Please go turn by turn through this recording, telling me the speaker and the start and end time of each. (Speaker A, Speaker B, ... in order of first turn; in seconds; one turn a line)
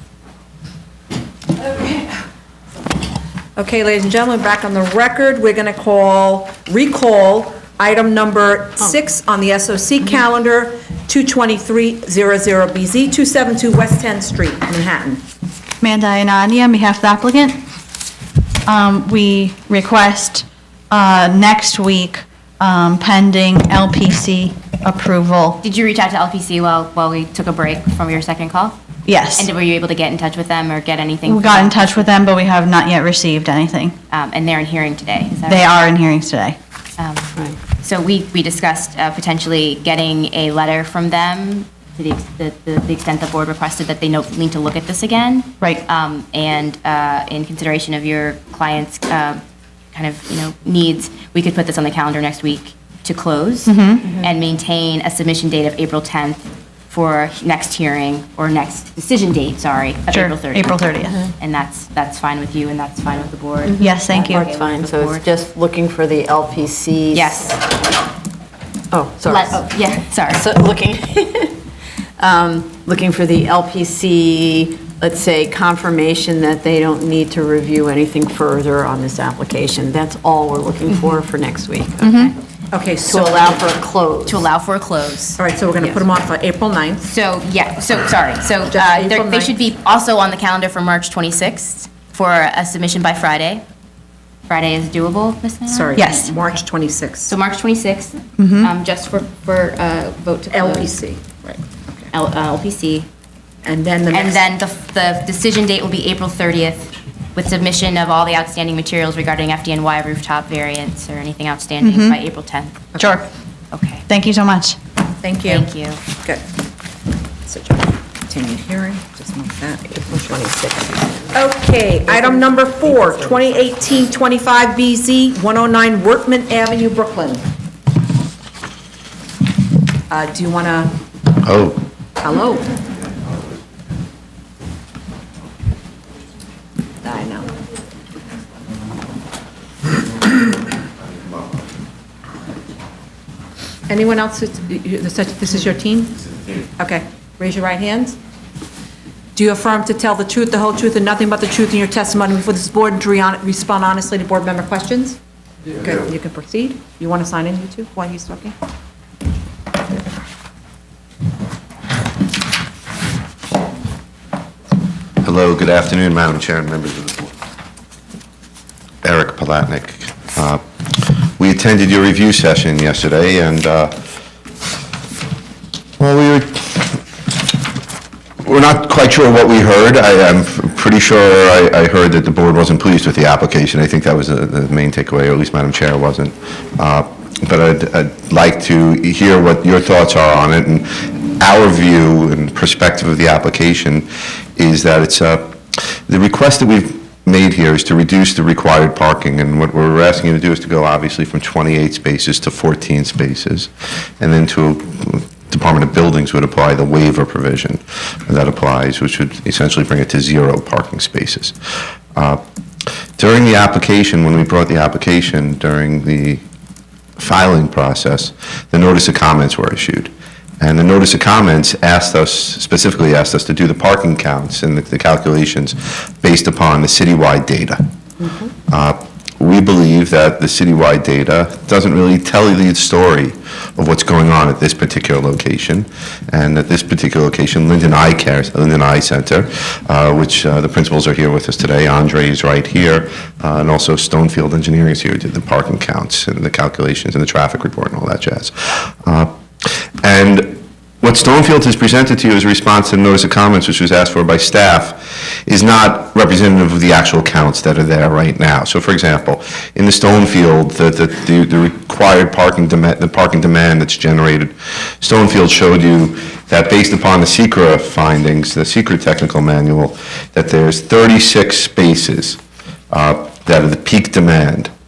Speaker A: 3.5-15.2
Speaker B: 15.8-17.6
Speaker B: 18.7-25.6
Speaker C: 25.6-28.8
Speaker B: 29.1-29.5
Speaker C: 29.3-32.1
Speaker B: 31.2-33.9
Speaker C: 34.1-35.8
Speaker B: 35.5-36.5
Speaker C: 37.0-49.4
Speaker C: 49.9-60.9
Speaker B: 53.6-54.0
Speaker B: 60.1-61.2
Speaker C: 61.4-65.3
Speaker B: 63.8-64.5
Speaker D: 64.5-67.4
Speaker C: 67.1-67.6
Speaker D: 68.9-69.7
Speaker C: 69.2-70.4
Speaker D: 70.2-71.6
Speaker D: 72.2-82.3
Speaker B: 82.0-82.3
Speaker A: 82.7-83.7
Speaker D: 83.0-84.5
Speaker C: 84.2-85.4
Speaker A: 85.4-87.1
Speaker D: 85.8-86.0
Speaker C: 87.0-93.6
Speaker A: 88.7-89.5
Speaker C: 94.5-96.5
Speaker A: 95.7-97.3
Speaker B: 96.0-96.2
Speaker C: 97.2-101.5
Speaker B: 98.4-98.7
Speaker A: 100.5-102.0
Speaker C: 102.1-103.1
Speaker A: 103.6-104.5
Speaker C: 104.1-112.8
Speaker B: 111.8-112.2
Speaker B: 113.0-113.2
Speaker C: 113.7-114.0
Speaker B: 114.1-114.8
Speaker A: 115.2-115.7
Speaker C: 115.4-116.0
Speaker A: 117.4-120.0
Speaker D: 119.9-121.3
Speaker A: 121.3-127.4
Speaker D: 122.0-123.4
Speaker A: 130.1-130.9
Speaker E: 131.4-131.8
Speaker A: 132.2-132.7
Speaker A: 137.0-137.5
Speaker A: 143.9-148.2
Speaker A: 149.3-155.2
Speaker A: 155.8-158.5
Speaker E: 165.2-167.3
Speaker E: 169.0-173.9
Speaker E: 176.0-177.0
Speaker E: 178.4-211.6
Speaker E: 213.2-216.4
Speaker E: 217.2-227.8
Speaker E: 228.7-272.4
Speaker E: 272.9-274.7